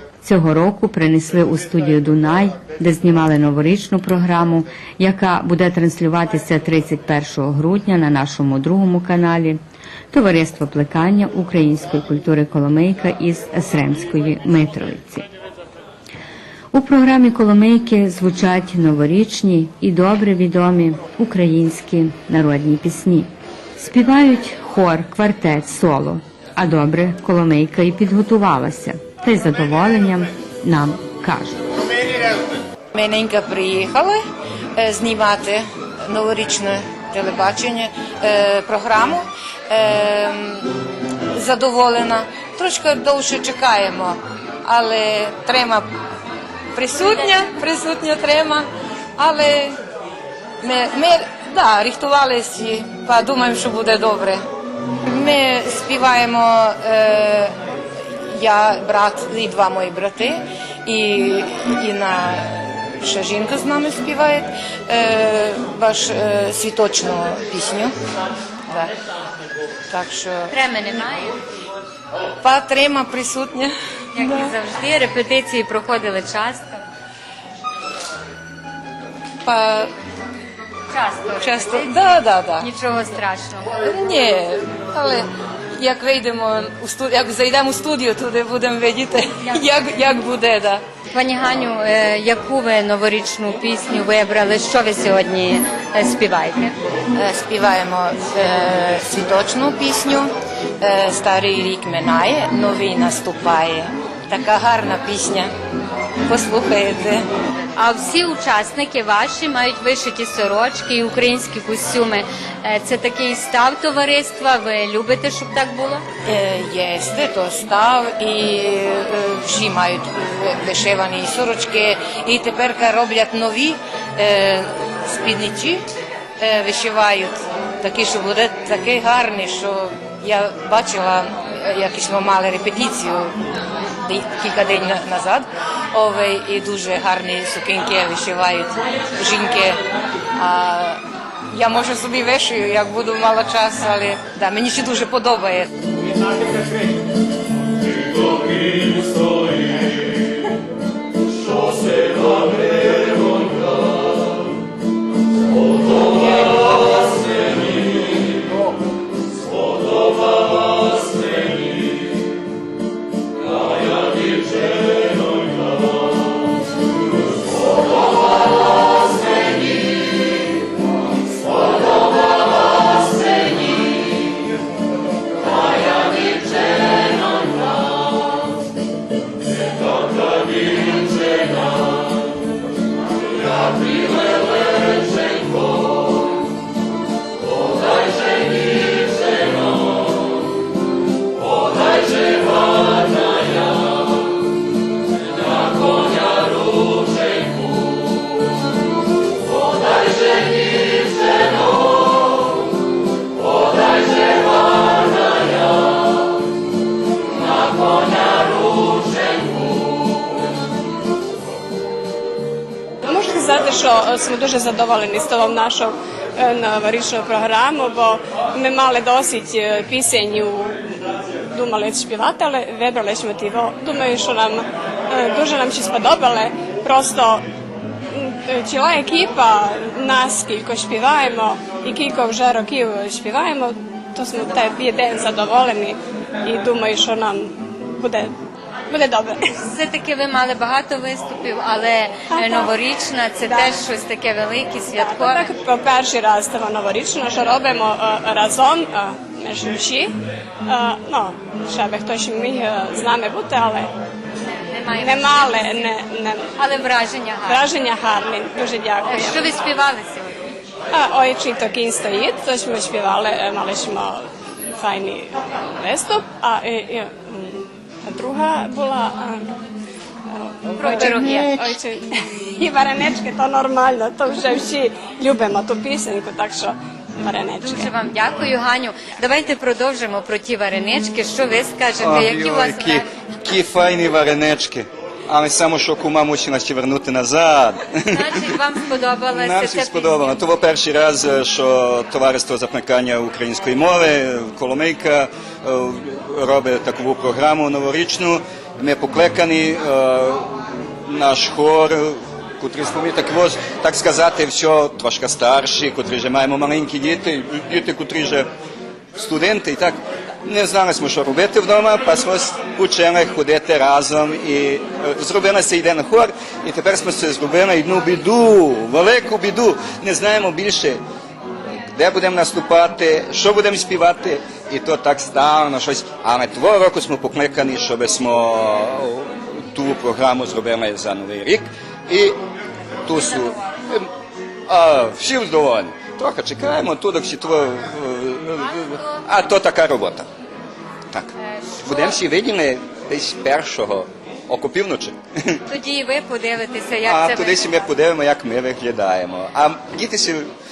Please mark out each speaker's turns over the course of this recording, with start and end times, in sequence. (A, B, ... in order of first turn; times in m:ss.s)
0:00.2-0:09.6 A
0:10.1-0:15.3 A
0:16.7-0:31.6 A
0:32.9-0:34.2 B
0:34.8-0:40.7 B
0:41.3-0:45.9 B
0:46.8-0:49.8 B
0:50.6-0:54.4 B
0:55.1-0:57.6 B
0:58.3-1:07.9 B
1:09.9-1:10.5 B
1:10.5-1:11.4 C
1:12.4-1:14.5 B
1:14.2-1:16.8 C
1:19.4-1:19.9 B
1:20.9-1:23.8 C
1:21.4-1:22.7 B
1:23.8-1:25.3 B
1:25.8-1:30.8 B
1:31.1-1:36.8 C
1:37.1-1:45.5 B
1:46.3-1:47.3 B
1:47.8-1:56.0 C
1:56.2-2:05.8 B
2:06.4-2:13.4 B
2:14.0-2:19.8 B
2:20.4-2:21.0 B
2:21.5-2:25.7 B
3:33.0-3:40.8 D
3:41.5-3:47.4 D
3:48.1-3:58.3 D
3:58.9-3:59.4 D
3:59.5-4:05.5 C
4:02.3-4:02.7 D
4:03.4-4:03.7 D
4:05.0-4:10.1 D
4:10.7-4:13.9 D
4:14.6-4:16.0 C
4:15.0-4:16.5 D
4:16.6-4:17.7 C
4:17.5-4:19.5 D
4:19.1-4:20.4 C
4:20.9-4:29.5 D
4:30.3-4:37.9 D
4:30.8-4:31.7 C
4:37.6-4:43.1 C
4:42.0-4:48.6 E
4:48.1-4:50.4 C
4:49.3-5:00.5 E
5:01.1-5:08.5 E
5:09.2-5:21.0 E
5:21.9-5:32.4 E
5:33.1-5:34.1 E
5:34.7-5:40.3 E
5:38.6-5:39.2 C
5:41.4-5:42.2 C
5:41.8-5:45.2 E
5:45.7-5:47.9 C
5:47.1-5:50.5 E